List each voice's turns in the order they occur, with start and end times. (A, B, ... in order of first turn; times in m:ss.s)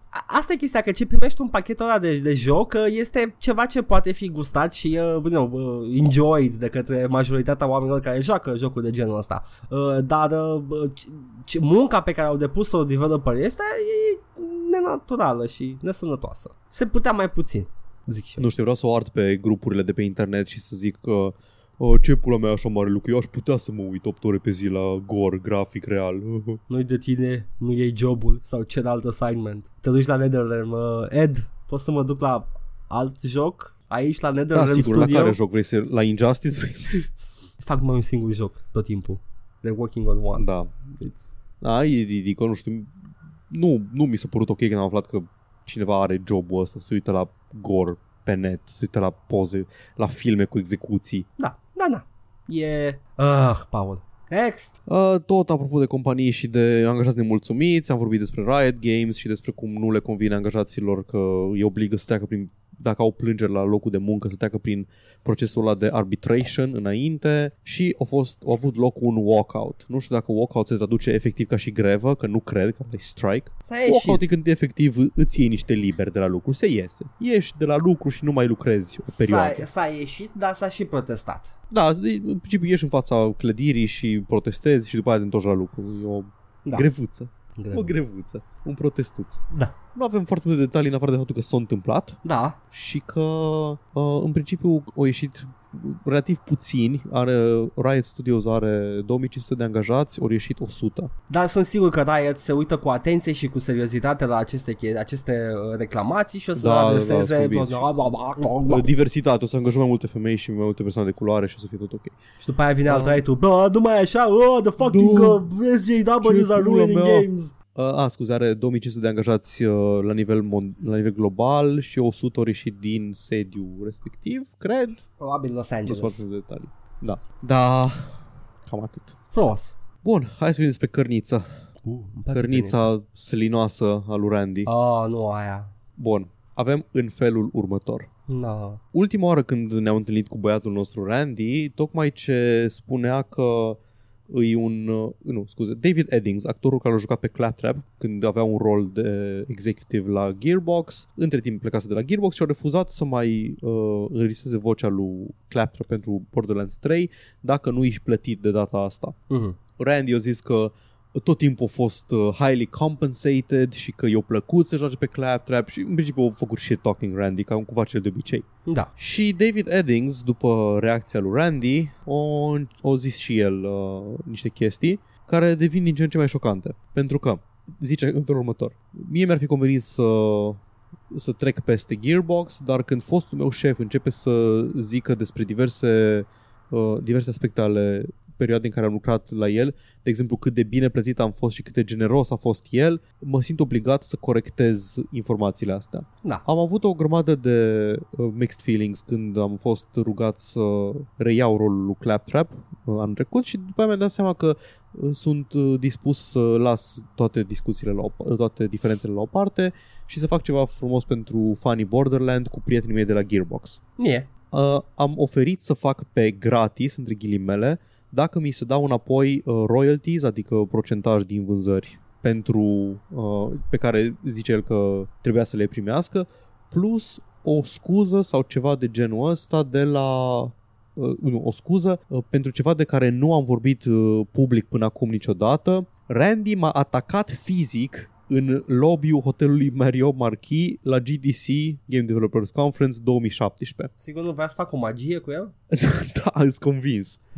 0:00.1-0:18.5 A
0:18.4-0:26.6 B
0:26.7-0:35.4 A
0:34.5-0:37.0 B
0:37.6-0:41.3 A
0:40.4-0:40.7 B
0:41.6-0:42.9 B
0:43.5-0:51.2 B
0:51.4-0:54.8 A
0:54.8-1:19.6 B
1:13.6-1:14.3 A
1:19.0-1:21.5 A
1:21.7-1:32.2 B
1:27.6-1:28.1 A
1:32.2-1:32.6 A
1:32.7-1:41.1 B
1:41.3-1:48.9 A
1:46.6-1:47.9 B
1:48.6-1:52.2 B
1:52.4-1:57.5 A
1:52.9-1:53.2 B
1:54.8-1:55.4 B
1:56.2-2:05.0 B
2:05.2-2:06.2 A
2:05.8-2:09.2 B
2:09.3-2:09.7 A
2:10.0-2:11.4 B
2:11.8-2:12.9 A
2:12.3-2:14.7 B
2:14.6-2:15.7 A
2:16.0-2:18.1 B
2:18.3-2:18.8 A
2:18.9-2:23.8 B
2:24.3-2:39.1 B
2:39.3-2:39.6 A
2:39.8-2:48.4 B
2:48.6-2:48.9 A
2:49.0-3:00.6 B
3:01.1-3:33.8 B
3:34.0-3:34.3 A
3:34.5-4:03.9 B
4:04.0-4:05.5 A
4:05.7-4:07.2 B